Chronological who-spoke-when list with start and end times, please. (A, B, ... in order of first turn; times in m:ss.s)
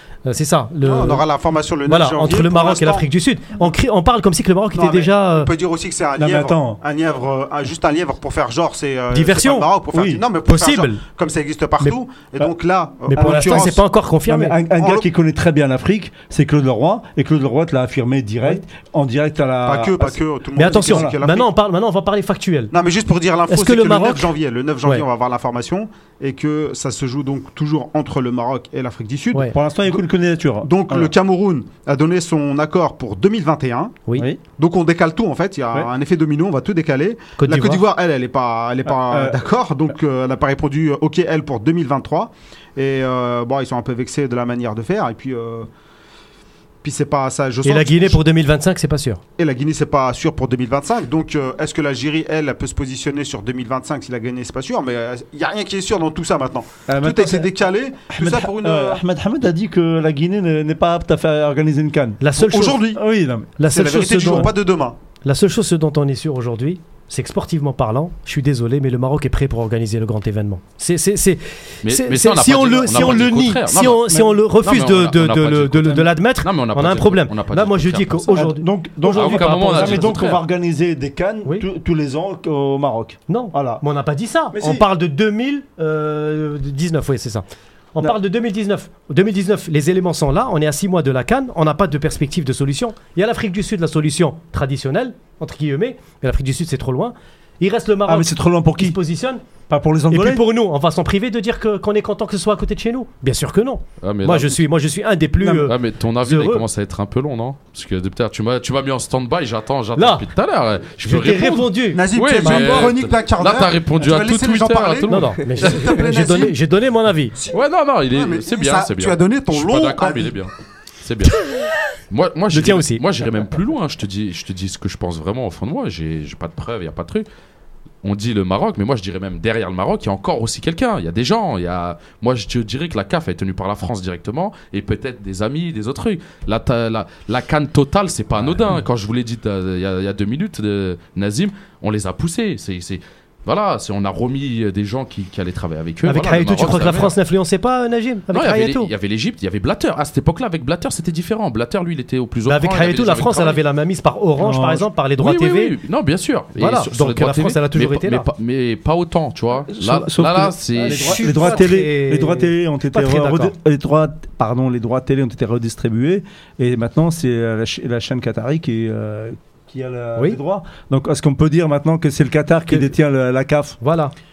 0:00.2-0:01.2 A
0:00.8-0:03.0 B
0:01.9-0:05.5 A
0:04.7-0:13.8 B
0:06.2-0:06.8 C
0:09.1-0:09.7 A
0:09.9-0:10.2 C
0:10.5-0:11.0 A
0:11.8-0:12.5 A
0:13.1-0:14.6 A
0:13.1-0:13.7 C
0:14.2-0:21.2 C
0:14.8-0:15.1 B
0:19.6-0:21.5 B
0:20.6-0:22.7 A
0:22.7-0:30.0 B
0:23.5-0:24.3 A
0:29.5-0:31.1 C
0:30.6-0:34.0 B
0:34.6-0:45.7 B
0:37.4-0:37.8 A
0:38.8-0:39.4 C
0:46.8-0:48.2 B
0:47.6-0:49.2 A
0:49.4-0:59.0 B
0:56.9-0:57.5 C
0:58.1-1:02.2 C
1:02.2-1:02.8 A
1:02.3-1:03.0 B
1:02.9-1:03.5 C
1:03.6-1:04.6 A
1:03.6-1:05.0 B
1:04.2-1:04.5 C
1:05.2-1:20.1 A
1:11.8-1:18.5 D
1:14.1-1:14.4 C
1:18.3-1:23.8 C
1:19.1-1:20.4 D
1:23.3-1:39.4 A
1:24.5-1:24.8 C
1:38.1-1:39.0 C
1:39.7-1:40.4 C
1:40.1-1:46.6 A
1:44.0-1:44.6 D
1:45.4-1:45.7 C
1:45.6-1:55.9 D
1:50.0-1:50.2 A
1:51.0-1:52.9 A
1:51.9-1:56.6 B
1:55.1-1:57.4 A
1:57.5-2:01.5 D
1:58.1-2:00.4 B
2:02.1-2:07.2 D
2:02.5-2:03.0 A
2:08.0-2:27.1 D
2:26.0-2:28.9 A
2:28.3-2:33.6 D
2:32.4-2:35.7 A
2:34.4-2:34.8 C
2:35.2-2:41.5 D
2:36.6-2:38.2 A
2:39.7-2:53.8 C
2:40.8-2:43.5 A
2:52.7-2:52.9 A
2:53.8-2:54.1 A